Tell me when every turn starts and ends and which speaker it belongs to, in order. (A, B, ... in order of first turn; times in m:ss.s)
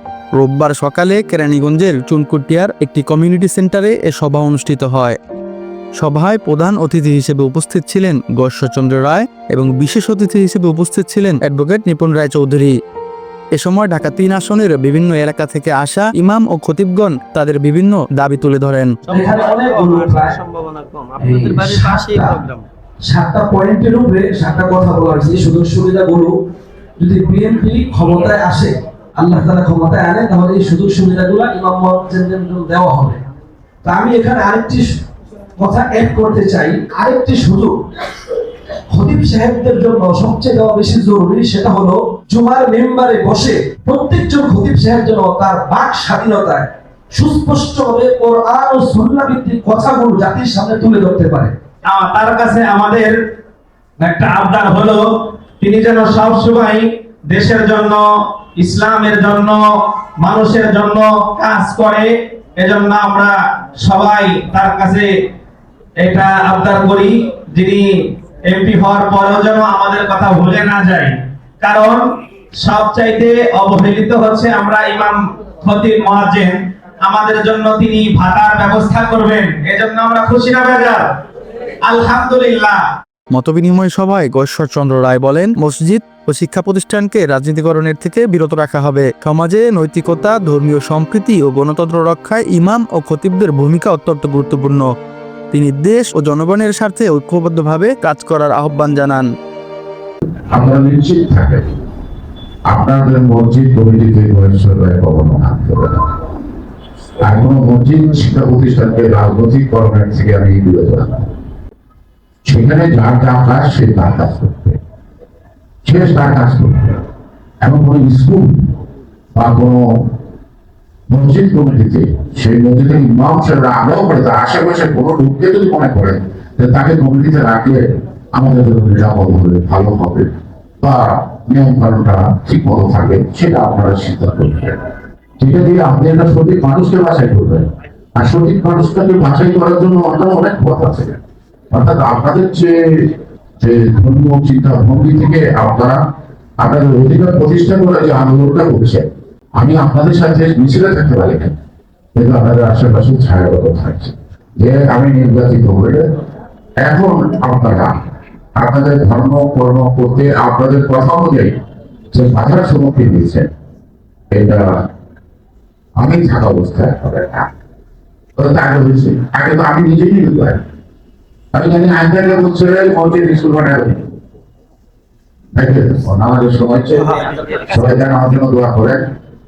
0:00.3-0:05.2 A
0:06.0-0:12.8 A
0:13.5-0:18.9 A
0:19.1-0:20.4 B
0:19.1-0:22.6 C
0:21.2-0:22.4 B
0:23.0-0:26.3 B
0:27.0-0:33.2 B
0:33.8-0:35.0 B
0:35.6-0:37.7 B
0:38.9-0:51.5 B
0:51.9-0:53.2 D
0:54.0-1:05.1 D
1:06.0-1:12.1 D
1:12.6-1:21.1 D
1:21.8-1:22.8 D
1:23.3-1:34.9 A
1:35.5-1:39.3 A
1:40.5-1:41.6 E
1:42.7-1:46.1 E
1:47.2-1:51.3 E
1:52.4-1:54.8 E
1:55.8-1:57.0 E
1:57.6-1:58.7 E
1:59.3-2:00.1 E
2:01.1-2:07.8 E
2:08.3-2:10.3 E
2:10.8-2:14.8 E
2:15.4-2:21.2 E
2:21.7-2:26.0 E
2:26.6-2:31.5 E
2:32.1-2:36.0 E
2:36.8-2:37.9 E
2:38.6-2:41.5 E
2:42.1-2:43.5 E
2:44.3-2:44.7 E
2:46.0-2:47.5 E
2:48.4-2:50.6 E
2:51.5-2:54.1 E
2:55.6-2:59.0 E